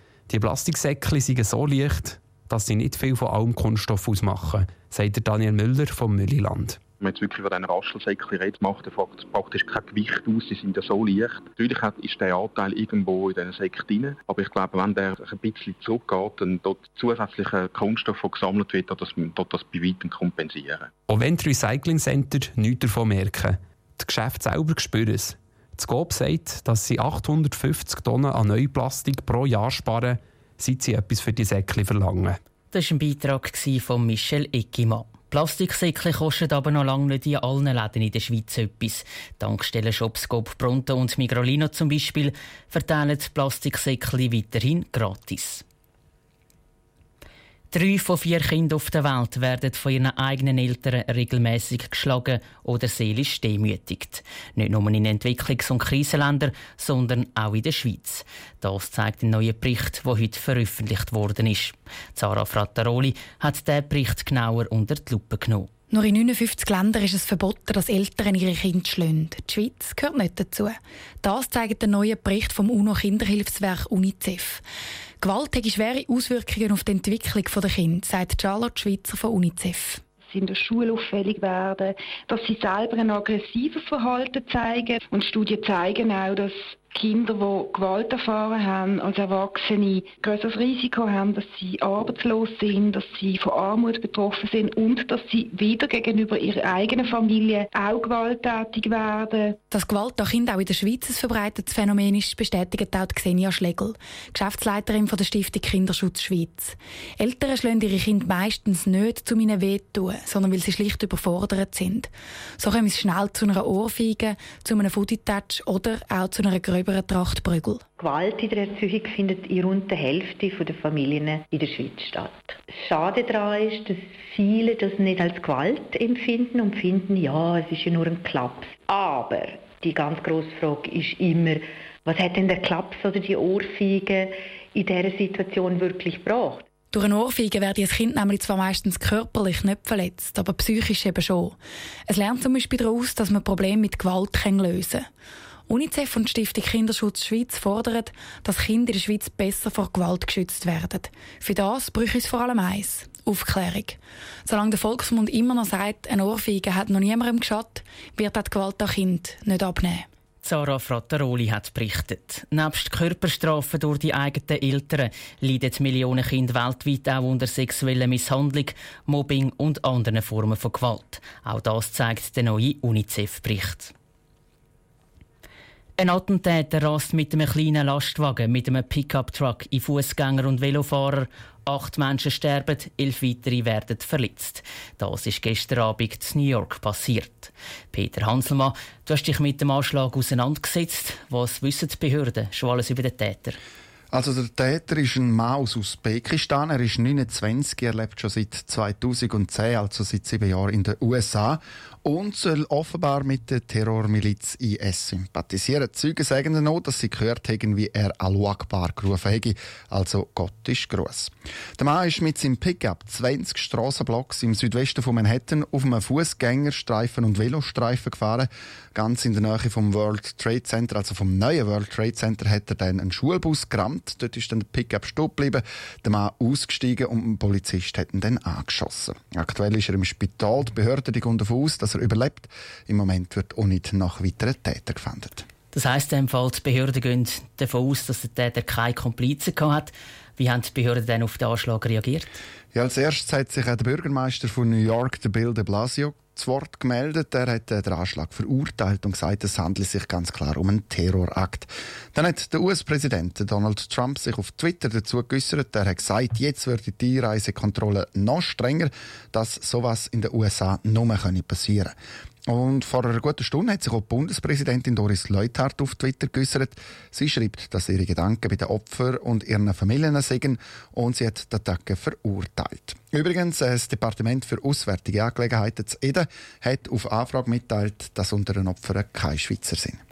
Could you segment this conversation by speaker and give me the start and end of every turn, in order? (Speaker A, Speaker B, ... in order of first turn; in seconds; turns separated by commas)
Speaker A: 0.3-6.8, Speaker B: 7.0-20.9, Speaker A: 21.1-32.4, Speaker C: 32.7-45.6, Speaker C: 47.7-65.7, Speaker D: 65.9-74.6, Speaker D: 75.2-80.0, Speaker E: 80.3-99.6, Speaker D: 99.7-117.8, Speaker F: 118.0-136.7, Speaker D: 136.9-145.1, Speaker D: 145.7-160.1, Speaker C: 160.4-173.9, Speaker C: 176.0-193.6, Speaker G: 194.1-235.4, Speaker C: 235.7-242.4, Speaker G: 242.7-261.9, Speaker G: 262.5-280.0